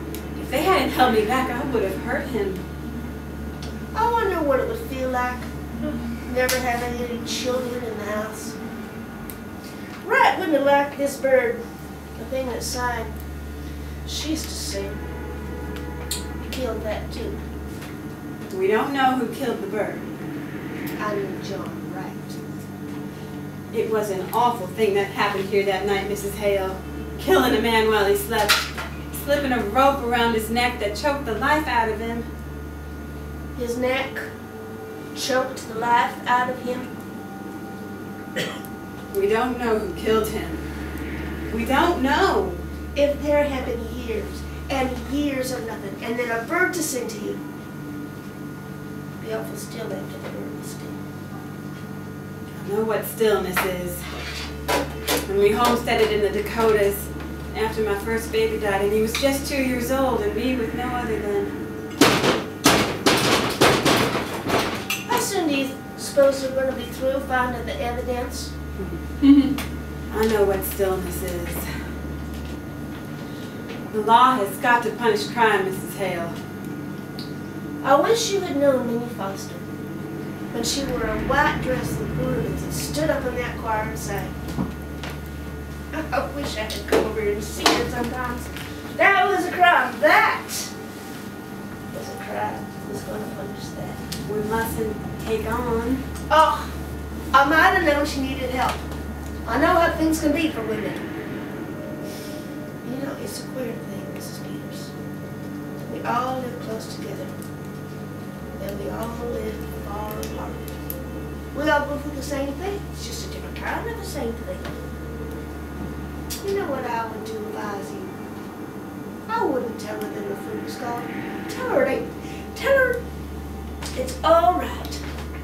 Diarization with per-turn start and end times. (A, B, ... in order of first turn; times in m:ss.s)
0:00.4-0:02.6 A
0:03.9-0:08.6 B
0:10.0-0:11.6 B
0:12.2-0:13.1 B
0:14.0-0:15.0 B
0:16.4-0:17.4 B
0:18.5-0:20.1 A
0:21.0-0:22.4 B
0:23.7-0:32.3 A
0:33.6-0:34.3 B
0:35.1-0:36.9 B
0:39.1-0:40.6 A
0:41.5-0:42.6 A
0:43.0-0:47.4 B
0:49.2-0:51.0 B
0:52.5-0:54.0 A
0:55.3-1:01.6 A
1:05.1-1:08.5 B
1:08.8-1:09.6 A
1:10.1-1:11.6 A
1:13.9-1:16.4 A
1:17.8-1:19.7 B
1:20.5-1:24.3 B
1:25.9-1:30.7 B
1:31.9-1:34.0 B
1:34.2-1:36.0 A
1:36.3-1:36.7 B
1:37.3-1:38.8 B
1:39.4-1:41.0 B
1:42.8-1:44.9 B
1:45.8-1:47.4 B
1:48.6-1:50.7 B
1:51.5-1:54.8 B
1:56.4-1:58.2 B
1:59.3-2:03.0 B
2:04.0-2:05.0 B